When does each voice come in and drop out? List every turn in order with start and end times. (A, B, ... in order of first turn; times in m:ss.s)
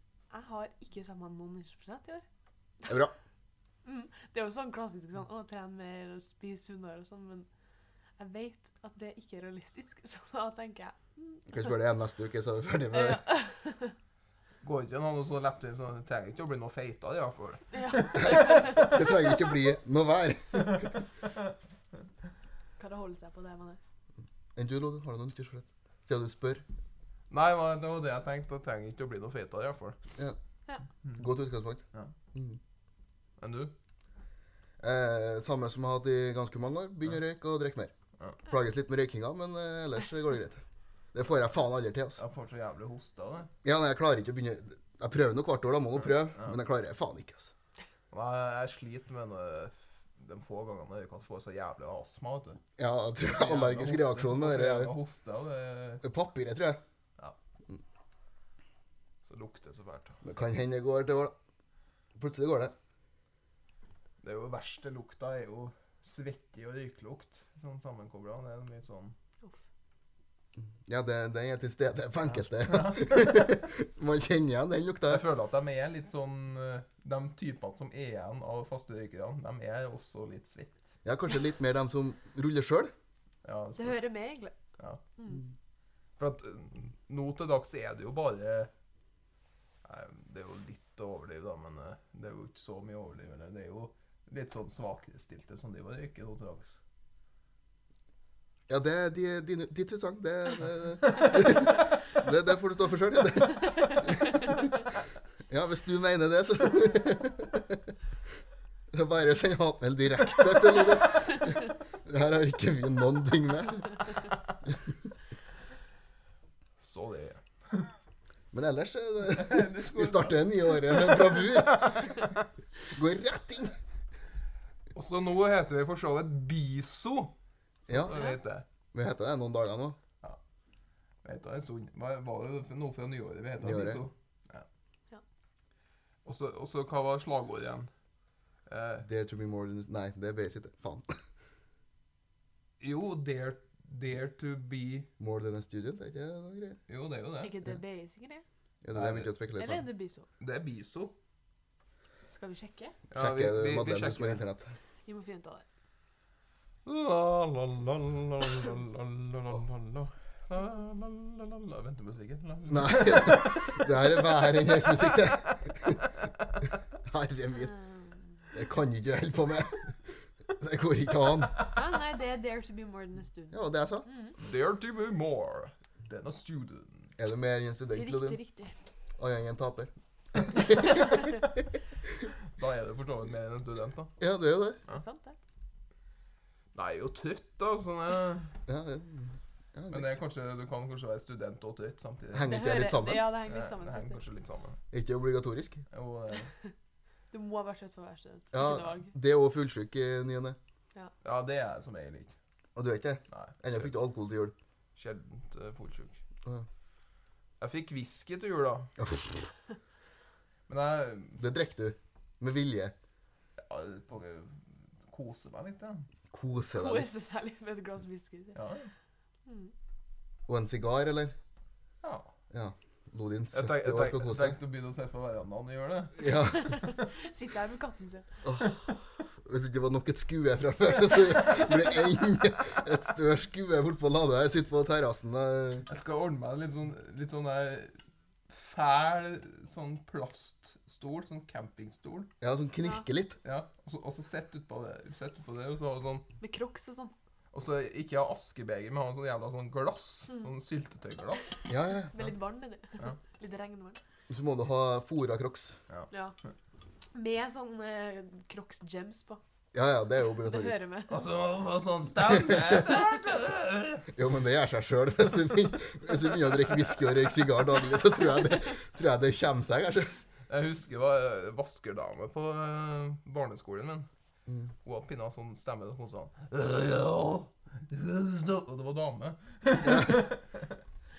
0:00.3-0:02.2 A
0:02.9-0:03.1 B
0:03.8-0:07.5 A
0:08.2-0:11.7 A
0:11.5-0:13.2 B
0:12.9-0:14.0 A
0:14.6-0:18.9 C
0:17.7-0:19.0 A
0:18.2-0:21.0 B
0:22.8-0:23.8 A
0:24.6-0:26.6 B
0:27.3-0:30.0 C
0:31.2-0:31.8 B
0:32.3-0:32.6 B
0:33.4-0:33.7 C
0:34.8-0:37.9 B
0:38.4-0:40.6 B
0:41.1-0:42.2 B
0:42.2-0:43.5 C
0:43.6-0:47.5 B
0:46.0-0:46.6 C
0:48.1-0:52.6 C
0:52.8-0:54.9 B
0:53.2-0:56.0 C
0:56.0-0:56.8 B
0:59.2-1:00.2 C
1:00.2-1:01.3 B
1:02.2-1:02.7 B
1:04.2-1:09.2 C
1:10.8-1:15.3 B
1:12.3-1:13.6 C
1:15.1-1:20.8 C
1:21.0-1:22.9 B
1:23.4-1:24.1 C
1:23.8-1:24.6 A
1:26.2-1:28.7 C
1:29.8-1:36.8 C
1:38.7-1:44.7 B
1:45.5-1:47.9 B
1:48.9-1:54.1 B
1:56.8-1:57.9 C
1:58.5-2:02.3 B
1:59.2-2:02.1 C
2:02.9-2:03.8 B
2:04.9-2:07.3 C
2:07.9-2:08.1 B
2:07.9-2:08.6 C
2:08.1-2:08.4 A
2:08.9-2:10.0 B
2:11.2-2:14.7 C
2:13.6-2:14.0 B
2:16.2-2:17.9 C
2:18.7-2:19.1 C
2:19.0-2:21.2 B
2:22.8-2:25.1 C
2:25.2-2:26.8 B
2:26.9-2:27.5 C
2:27.4-2:28.4 A
2:28.8-2:29.8 B
2:28.9-2:29.3 C
2:29.6-2:30.3 A
2:30.4-2:31.1 C
2:32.3-2:33.0 A
2:33.1-2:34.4 C
2:33.2-2:34.7 B
2:35.1-2:35.6 A
2:36.9-2:45.6 C
2:42.7-2:46.1 B
2:47.0-2:47.7 B
2:47.6-2:48.3 A
2:48.5-2:51.6 B
2:51.7-2:54.4 A
2:53.5-2:54.1 B
2:54.4-2:57.1 C
2:57.2-2:58.4 B
2:58.0-2:58.7 A
2:59.2-3:01.3 B
3:00.9-3:01.3 A
3:02.5-3:04.2 C
3:04.2-3:04.8 B
3:04.9-3:05.4 A
3:06.7-3:08.5 C
3:08.7-3:10.2 B
3:09.9-3:12.6 C
3:12.3-3:13.3 B
3:12.5-3:14.2 A
3:13.4-3:14.8 C
3:14.9-3:15.8 B
3:15.9-3:16.5 C
3:17.3-3:19.1 A
3:18.5-3:20.6 B
3:21.2-3:22.4 C
3:22.8-3:24.5 B
3:23.3-3:23.9 C
3:25.0-3:26.2 C
3:27.6-3:28.9 C
3:29.0-3:29.4 B
3:30.7-3:31.4 C
3:31.4-3:32.9 B
3:33.6-3:36.1 C
3:36.3-3:37.1 B
3:36.7-3:38.6 A
3:38.5-3:38.9 C
3:39.5-3:39.7 A
3:40.5-3:41.4 B
3:42.0-3:42.3 C
3:42.5-3:44.6 B
3:43.5-3:46.3 C
3:46.2-3:46.8 B
3:46.3-3:48.3 A
3:48.4-3:48.7 B
3:49.4-3:55.9 B
3:55.9-3:58.0 C
3:58.5-4:02.3 C
4:02.4-4:03.4 B
4:03.4-4:06.3 C
4:06.4-4:07.1 A
4:07.5-4:11.5 C
4:11.7-4:12.1 B
4:12.1-4:14.0 A
4:14.3-4:15.8 B
4:16.1-4:16.4 A
4:17.1-4:19.4 A
4:19.7-4:20.8 B
4:20.4-4:21.2 A
4:21.1-4:24.1 C
4:24.2-4:30.1 B
4:30.5-4:34.1 C
4:34.8-4:40.8 C
4:39.8-4:40.1 B